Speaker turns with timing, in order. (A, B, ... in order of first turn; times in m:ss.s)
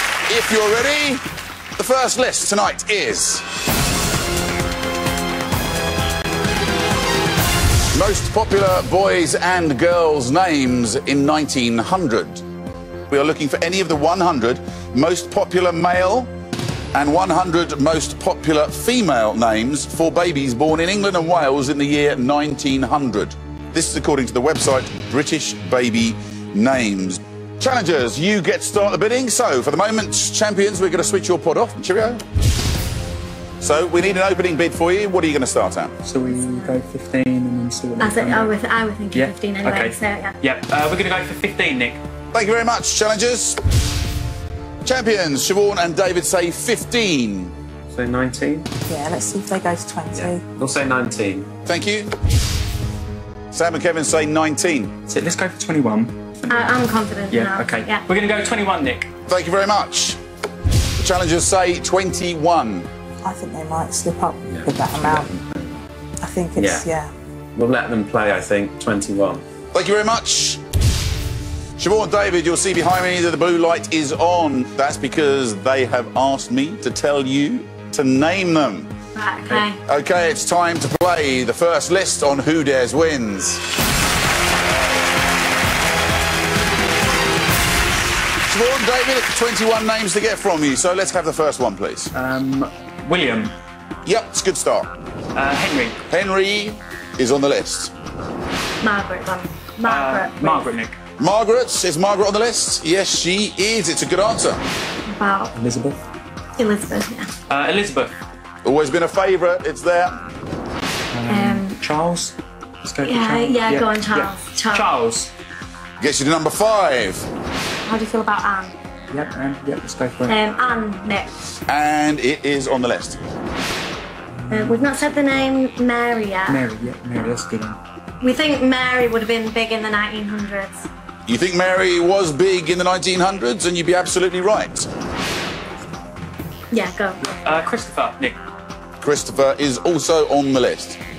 0:00.3-0:01.2 A
0:01.8-0:03.5 A
0:07.9-0:12.4 A
0:13.1-0:16.3 A
0:16.9-0:32.2 A
0:33.6-0:35.9 A
0:36.0-0:38.5 B
0:36.3-0:36.8 C
0:38.0-0:40.4 C
0:39.1-0:42.0 B
0:42.3-0:43.6 A
0:44.8-0:47.5 A
0:47.9-0:48.7 D
0:48.9-0:50.4 E
0:50.1-0:51.5 D
0:51.7-0:52.1 A
0:53.5-0:54.9 A
0:55.1-0:56.6 B
0:56.5-0:58.0 C
0:57.3-0:59.1 B
0:59.3-1:00.2 A
1:01.0-1:02.9 A
1:03.2-1:05.3 E
1:04.5-1:05.8 D
1:06.2-1:07.1 E
1:06.6-1:06.8 D
1:07.6-1:09.4 D
1:09.7-1:10.6 A
1:11.8-1:18.9 A
1:19.2-1:19.8 C
1:19.8-1:23.6 A
1:28.5-1:32.1 A
1:32.1-1:33.6 B
1:34.1-1:34.9 A
1:35.4-1:36.0 B
1:36.1-1:37.9 A
1:38.8-1:40.7 C
1:39.8-1:41.0 B
1:41.2-1:44.6 A
1:45.1-1:45.5 C
1:45.6-1:46.0 B
1:46.6-1:47.3 C
1:47.5-1:48.1 B
1:48.6-1:50.2 A
1:51.1-1:55.3 B
1:51.3-1:51.8 C
1:53.0-1:54.9 C
1:56.0-1:57.3 A
1:57.9-1:58.8 C
1:59.1-2:00.4 B
2:00.3-2:01.3 C
2:01.7-2:03.2 A
2:04.4-2:05.5 B
2:04.5-2:06.6 C
2:06.5-2:07.8 B
2:08.2-2:10.9 C
2:11.3-2:14.9 A
2:16.7-2:17.3 C
2:17.3-2:18.4 B
2:19.0-2:21.0 A